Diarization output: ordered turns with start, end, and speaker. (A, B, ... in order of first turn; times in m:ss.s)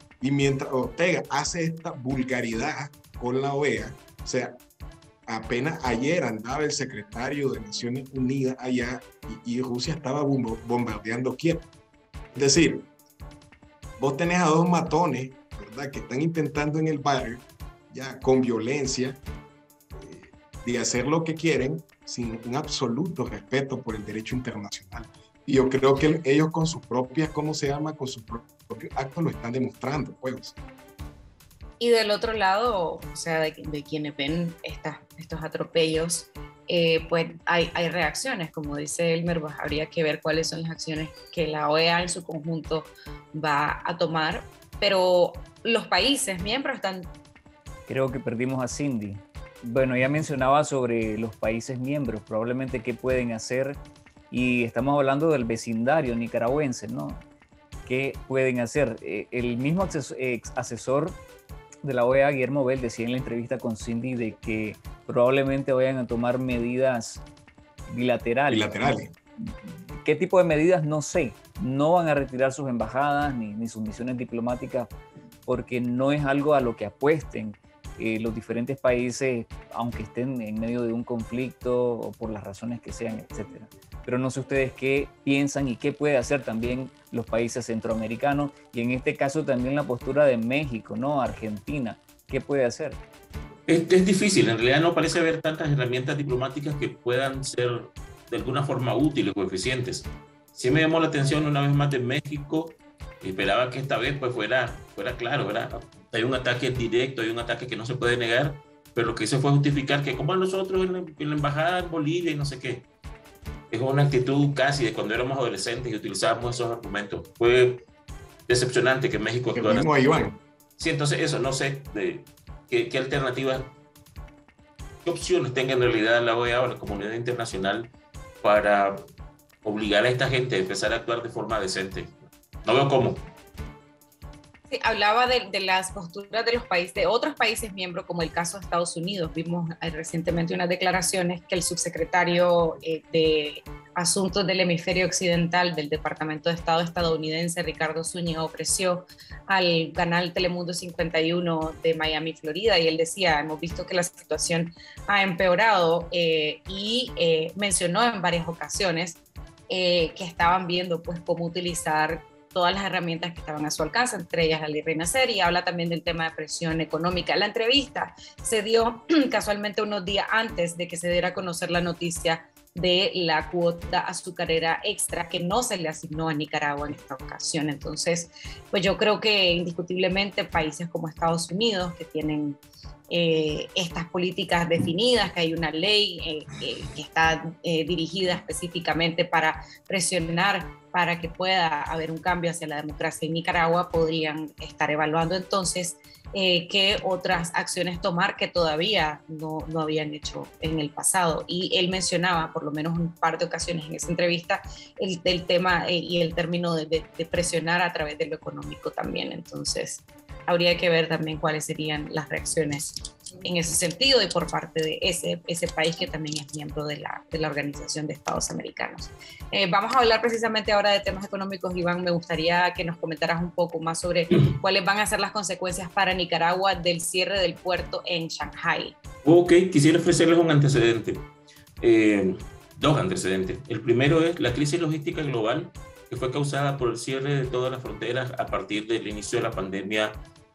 0:00.2-0:04.6 A
0:05.2-0:11.6 A
0:12.3-0:12.9 A
0:14.0-0:19.2 A
0:19.9-0:30.6 A
0:31.8-0:47.1 B
0:47.9-0:57.2 C
0:57.8-1:01.2 C
1:01.8-1:07.2 C
1:07.9-1:14.9 C
1:08.5-1:09.1 A
1:15.4-1:33.0 C
1:33.7-1:52.9 D
1:53.7-1:57.8 D
1:58.5-1:59.9 D
1:59.5-2:00.4 A
2:00.8-2:03.7 D
2:05.0-2:07.9 D
2:08.4-2:09.0 D
2:09.6-2:13.3 D
2:14.7-3:02.6 B
3:03.1-3:49.0 B
3:49.2-3:51.3 D
3:51.8-4:00.2 D